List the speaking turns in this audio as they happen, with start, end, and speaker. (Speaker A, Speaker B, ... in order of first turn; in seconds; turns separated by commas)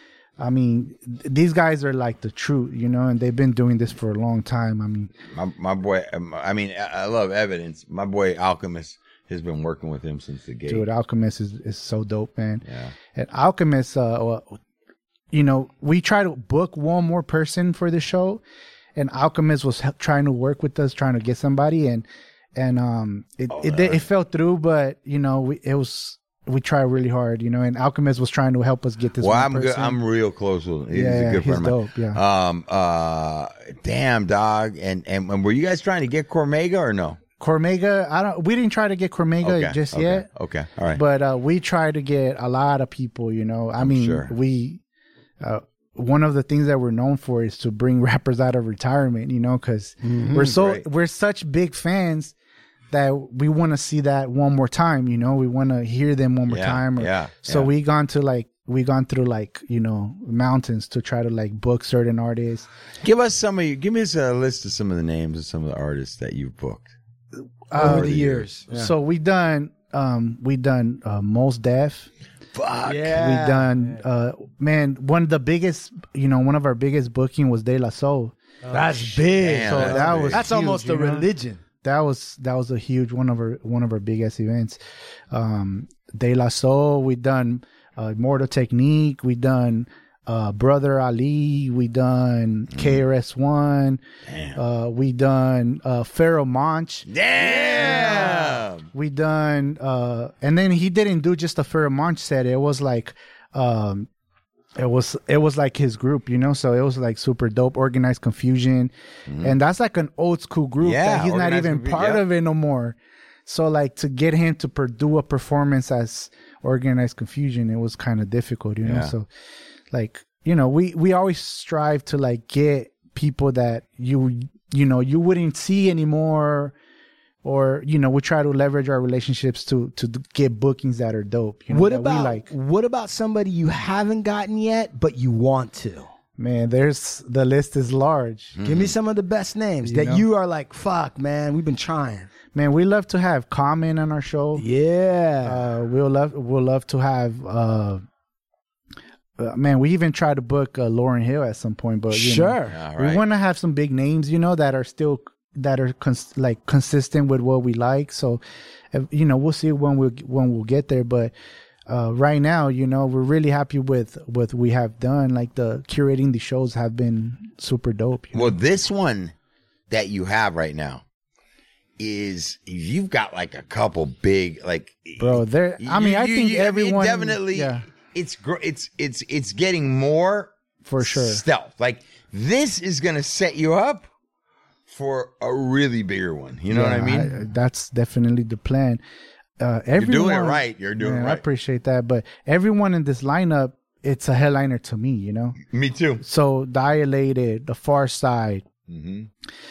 Speaker A: 0.4-5.1, Speaker B: 5.3-10.8, Speaker A: 10.7-14.6, Speaker B: 12.7-12.9, Speaker A: 15.3-18.4, Speaker A: 19.0-30.0, Speaker B: 23.5-24.0, Speaker B: 29.2-37.2, Speaker A: 30.9-32.2, Speaker A: 37.4-40.3, Speaker B: 39.4-41.0, Speaker A: 40.9-44.8, Speaker B: 43.8-44.3, Speaker A: 45.4-52.3, Speaker C: 50.0-50.5, Speaker B: 50.5-50.9, Speaker A: 52.9-62.7, Speaker B: 56.5-57.7, Speaker B: 63.0-66.9, Speaker A: 67.7-72.1, Speaker C: 67.8-68.9, Speaker B: 67.8-68.5, Speaker B: 72.6-73.1, Speaker C: 72.8-73.7, Speaker A: 73.1-78.8, Speaker C: 78.7-81.6, Speaker B: 79.3-80.5, Speaker A: 79.6-81.3, Speaker A: 81.8-84.8, Speaker A: 85.3-94.0, Speaker B: 94.3-94.6, Speaker A: 94.5-104.1, Speaker B: 97.1-98.9, Speaker A: 104.8-119.3, Speaker B: 109.3-109.5, Speaker B: 110.8-112.2, Speaker B: 118.8-119.1, Speaker A: 119.9-126.8, Speaker A: 127.4-132.5, Speaker C: 131.7-136.1, Speaker A: 136.4-138.6, Speaker B: 138.6-138.9, Speaker C: 138.7-142.3, Speaker A: 139.8-140.3, Speaker A: 142.5-144.7, Speaker C: 144.6-145.7, Speaker A: 145.4-148.0, Speaker A: 149.4-158.4, Speaker C: 152.1-152.8, Speaker B: 152.7-153.2, Speaker A: 158.9-161.3, Speaker A: 161.9-168.6, Speaker B: 168.3-169.3, Speaker B: 169.9-171.0, Speaker B: 172.0-184.1, Speaker A: 175.2-177.8, Speaker A: 180.8-181.4, Speaker B: 184.9-187.4, Speaker A: 186.7-189.0, Speaker A: 189.6-195.6, Speaker B: 190.0-191.4, Speaker B: 195.7-196.2, Speaker A: 196.2-198.7, Speaker B: 198.9-199.3